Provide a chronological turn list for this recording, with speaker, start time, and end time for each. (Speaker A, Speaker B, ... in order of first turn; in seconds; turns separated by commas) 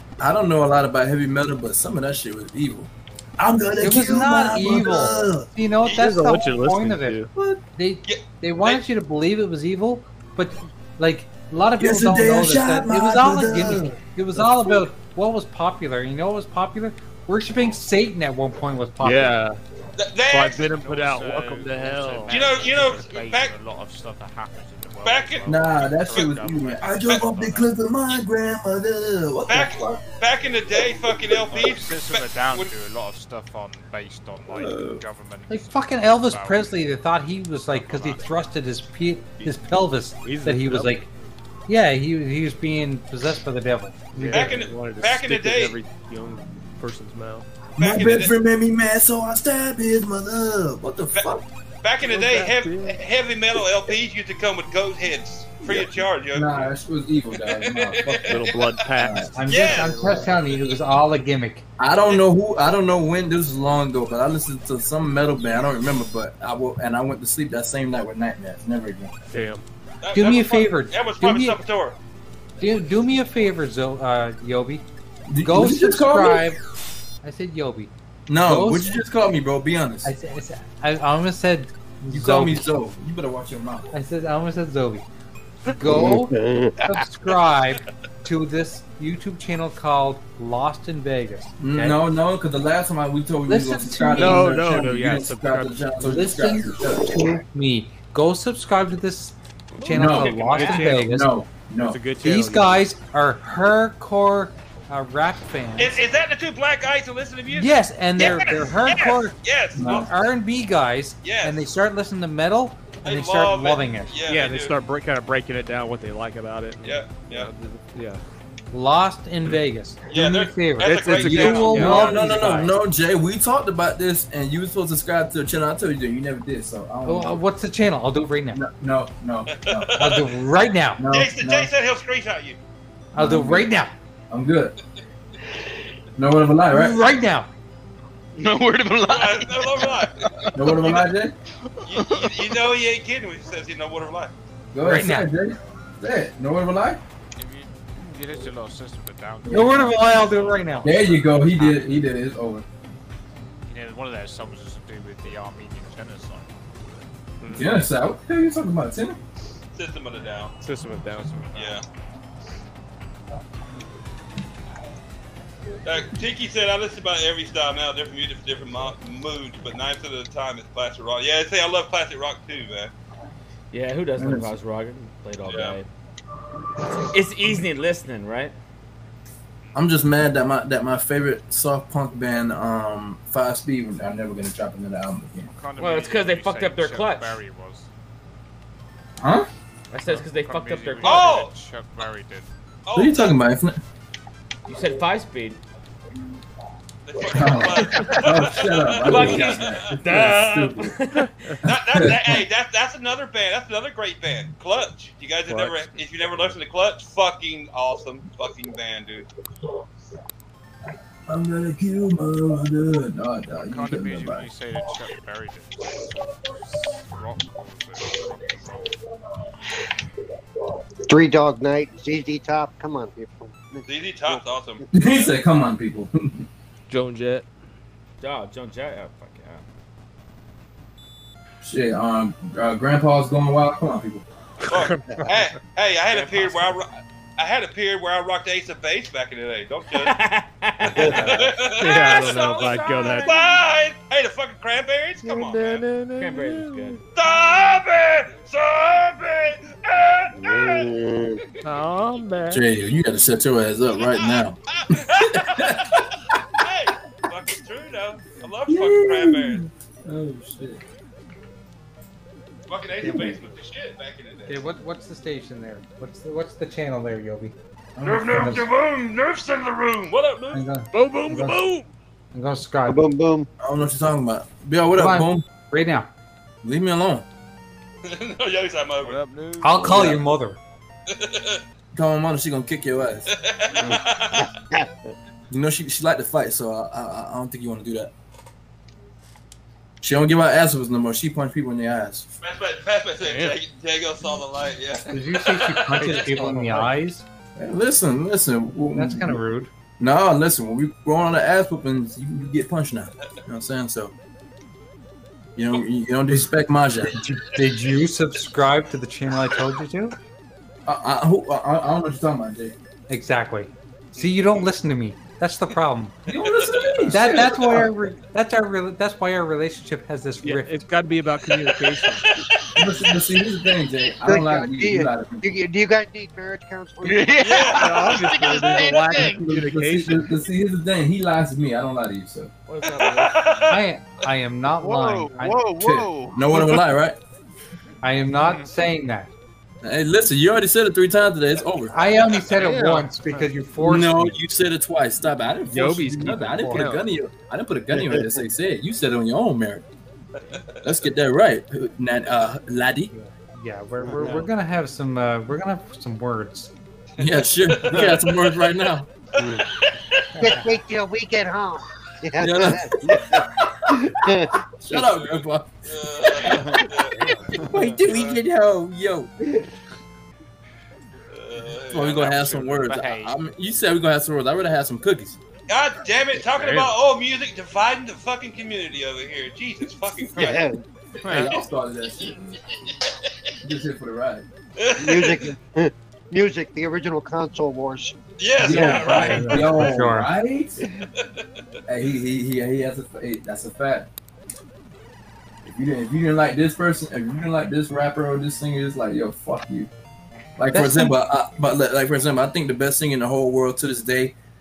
Speaker A: 0.2-5.5, Speaker B: 3.8-19.4, Speaker C: 5.8-7.3, Speaker A: 7.3-7.6, Speaker D: 8.1-8.8, Speaker A: 11.8-14.8, Speaker C: 19.0-19.6, Speaker D: 20.0-20.7, Speaker C: 20.3-22.7, Speaker E: 20.7-27.7, Speaker D: 22.3-23.6, Speaker D: 25.0-25.6, Speaker A: 25.4-30.0, Speaker D: 29.4-32.7, Speaker E: 31.5-36.8, Speaker A: 34.5-35.0, Speaker B: 35.5-41.1, Speaker E: 37.7-38.3, Speaker C: 40.2-41.0, Speaker B: 41.7-44.5, Speaker C: 44.1-47.5, Speaker D: 44.3-45.8, Speaker D: 47.8-48.3, Speaker A: 47.8-51.4, Speaker D: 51.8-56.7, Speaker C: 52.0-53.0, Speaker A: 55.6-59.4, Speaker D: 57.4-58.8, Speaker C: 58.2-60.3, Speaker B: 59.3-61.6, Speaker D: 59.5-60.0, Speaker A: 59.9-60.3, Speaker A: 61.8-69.2, Speaker C: 69.3-69.6, Speaker D: 70.0-72.0, Speaker B: 70.1-71.6, Speaker B: 72.6-74.8, Speaker A: 75.3-76.5, Speaker B: 75.4-76.6, Speaker B: 77.2-78.9, Speaker A: 78.3-80.1, Speaker B: 80.0-82.7, Speaker A: 82.1-83.9, Speaker B: 83.9-85.0, Speaker B: 85.7-86.3, Speaker F: 85.8-86.8, Speaker B: 86.8-92.0, Speaker A: 91.6-97.2, Speaker B: 93.5-94.6, Speaker C: 94.1-95.9, Speaker B: 96.0-101.3, Speaker G: 99.8-100.8, Speaker A: 99.9-102.1, Speaker C: 99.9-101.2, Speaker C: 101.8-102.8, Speaker B: 102.2-106.0, Speaker D: 105.8-110.1, Speaker B: 107.5-114.1, Speaker A: 109.7-110.1, Speaker D: 111.2-111.6, Speaker D: 113.0-114.7, Speaker C: 114.3-118.2, Speaker D: 116.8-117.5, Speaker B: 118.7-122.7, Speaker D: 120.1-122.1, Speaker C: 120.8-122.7, Speaker A: 121.2-127.4, Speaker B: 127.0-128.6, Speaker A: 128.5-130.1, Speaker D: 129.5-130.4, Speaker B: 130.0-131.0, Speaker A: 131.0-131.7, Speaker D: 131.1-132.6, Speaker B: 133.1-133.9, Speaker A: 133.1-133.7, Speaker A: 134.3-134.7, Speaker A: 136.2-137.1, Speaker B: 136.7-137.5, Speaker H: 138.3-141.0, Speaker D: 139.0-140.2, Speaker A: 140.5-141.3, Speaker H: 141.8-142.5, Speaker D: 141.8-144.3, Speaker A: 144.7-147.0, Speaker B: 144.8-145.3, Speaker E: 147.3-151.4, Speaker A: 149.5-149.7, Speaker B: 149.5-151.8, Speaker A: 150.8-152.7, Speaker E: 153.7-156.5, Speaker C: 157.4-157.8, Speaker A: 157.5-159.2, Speaker D: 159.7-160.5, Speaker C: 160.6-161.4, Speaker E: 161.2-161.8, Speaker D: 161.5-161.8, Speaker D: 165.8-172.9, Speaker G: 173.7-175.9, Speaker A: 174.2-174.5, Speaker D: 175.5-175.8, Speaker G: 176.9-178.5, Speaker A: 179.7-185.5, Speaker E: 185.4-187.9, Speaker G: 185.8-187.4, Speaker A: 189.2-189.5, Speaker G: 189.9-191.4, Speaker E: 190.0-192.5, Speaker D: 191.0-191.5, Speaker D: 192.8-193.4, Speaker A: 192.9-193.8, Speaker G: 194.7-195.6, Speaker D: 197.1-199.9, Speaker A: 197.2-201.0, Speaker G: 199.0-201.3, Speaker A: 201.6-202.4, Speaker D: 201.6-209.3, Speaker C: 205.5-205.8, Speaker E: 206.3-206.5, Speaker A: 211.3-214.5, Speaker E: 213.5-216.1, Speaker E: 217.0-218.6, Speaker F: 221.1-224.8, Speaker D: 223.8-225.3, Speaker A: 224.9-226.4, Speaker C: 226.9-227.4, Speaker G: 228.2-229.6, Speaker A: 231.6-234.2, Speaker C: 234.7-235.3, Speaker D: 234.7-240.1, Speaker G: 236.1-236.8, Speaker G: 239.9-243.6, Speaker C: 240.9-243.3, Speaker F: 240.9-241.4, Speaker D: 241.0-245.8, Speaker C: 245.2-247.0, Speaker G: 246.2-247.0, Speaker D: 247.1-250.9, Speaker F: 250.4-251.4, Speaker C: 251.6-252.6, Speaker A: 252.5-255.8, Speaker D: 254.0-259.6, Speaker A: 258.7-260.8, Speaker D: 262.7-264.6, Speaker B: 263.0-263.4, Speaker B: 264.5-267.5, Speaker A: 267.9-268.6, Speaker D: 268.0-270.6, Speaker B: 268.2-268.6, Speaker B: 270.5-271.7, Speaker C: 270.9-271.9, Speaker B: 272.3-273.0, Speaker F: 272.9-273.5, Speaker A: 273.6-275.4, Speaker B: 274.9-276.1, Speaker A: 276.6-277.3, Speaker D: 278.0-279.2, Speaker E: 279.0-280.2, Speaker B: 279.6-280.6, Speaker A: 279.8-280.2, Speaker D: 281.1-281.6, Speaker A: 281.9-283.3, Speaker D: 283.3-284.5, Speaker F: 283.8-284.9, Speaker A: 285.5-288.1, Speaker A: 290.0-292.2, Speaker D: 292.4-296.1, Speaker C: 293.2-293.6, Speaker B: 295.1-297.2, Speaker C: 295.9-296.9, Speaker A: 297.6-299.4, Speaker B: 298.9-299.7, Speaker A: 300.0-304.1, Speaker A: 305.6-307.2, Speaker B: 307.0-310.1, Speaker A: 310.9-312.7, Speaker B: 313.1-316.2, Speaker D: 314.1-314.7, Speaker A: 316.3-317.9, Speaker D: 316.3-317.1, Speaker B: 317.1-320.8, Speaker C: 320.4-322.3, Speaker D: 322.2-323.1, Speaker A: 322.7-325.5, Speaker F: 324.2-328.1, Speaker H: 327.0-329.4, Speaker D: 327.4-329.2, Speaker C: 327.8-330.2, Speaker E: 328.0-329.1, Speaker A: 329.2-332.5, Speaker G: 332.7-333.4, Speaker D: 332.9-333.8, Speaker B: 333.7-335.7, Speaker H: 334.8-336.6, Speaker A: 335.7-337.2, Speaker B: 338.0-339.3, Speaker A: 339.8-342.0, Speaker B: 341.9-344.4, Speaker C: 342.6-343.5, Speaker A: 343.8-349.9, Speaker C: 345.7-347.1, Speaker F: 347.9-348.2, Speaker A: 350.8-353.1, Speaker B: 353.1-356.7, Speaker F: 354.0-354.4, Speaker A: 357.2-359.1, Speaker D: 357.3-358.6, Speaker D: 359.4-360.2, Speaker B: 360.4-360.7, Speaker F: 360.4-365.0, Speaker A: 362.4-364.0, Speaker A: 364.8-366.8, Speaker D: 365.0-367.1, Speaker E: 366.7-368.0, Speaker A: 367.6-369.3, Speaker D: 368.1-368.3, Speaker D: 371.3-372.2, Speaker A: 371.9-375.4, Speaker E: 372.1-373.4, Speaker D: 375.7-380.7, Speaker E: 376.6-376.9, Speaker F: 380.4-380.8, Speaker A: 381.2-382.5, Speaker E: 381.3-381.6, Speaker A: 383.6-384.4, Speaker D: 384.8-385.5, Speaker F: 385.0-388.1, Speaker D: 388.4-389.9, Speaker A: 388.6-390.8, Speaker B: 388.6-390.3, Speaker A: 391.9-394.1, Speaker A: 395.6-399.9, Speaker A: 400.6-404.3, Speaker B: 400.7-401.2